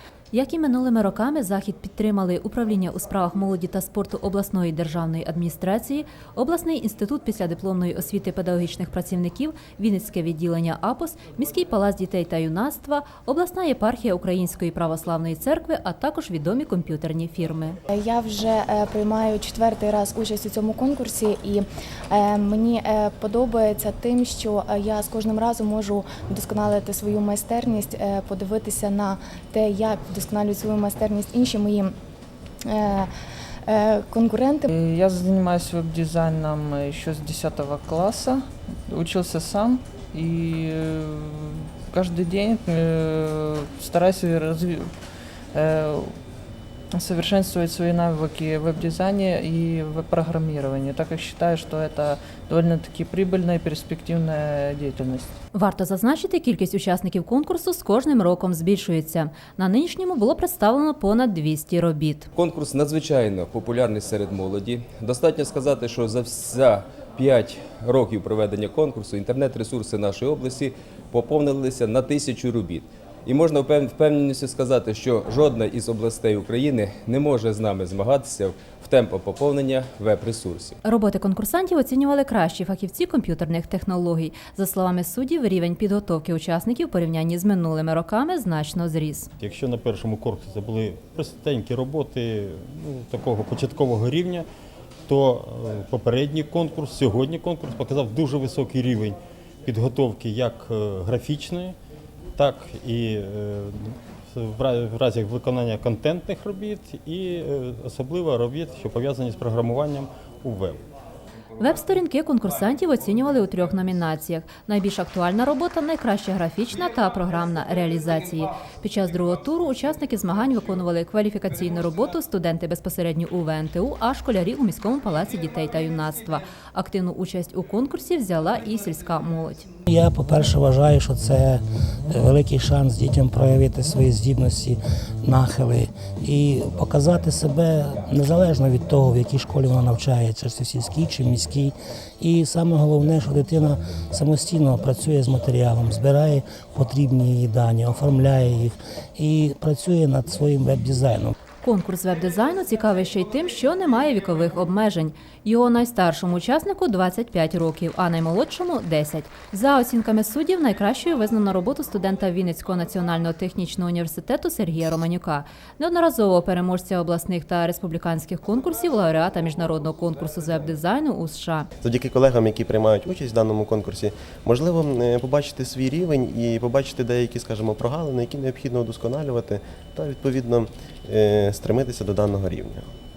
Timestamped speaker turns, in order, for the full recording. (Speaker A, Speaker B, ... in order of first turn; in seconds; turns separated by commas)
Speaker A: 0.3-17.8, Speaker B: 17.9-31.9, Speaker B: 32.6-33.1, Speaker B: 33.6-34.7, Speaker C: 34.7-46.2, Speaker C: 46.9-55.3, Speaker A: 55.5-62.3, Speaker D: 62.3-80.8, Speaker A: 80.8-89.3, Speaker E: 89.4-94.5, Speaker E: 95.1-101.8, Speaker E: 102.3-110.8, Speaker A: 111.6-129.7, Speaker F: 129.9-151.3, Speaker A: 151.6-171.7, Speaker G: 171.8-182.8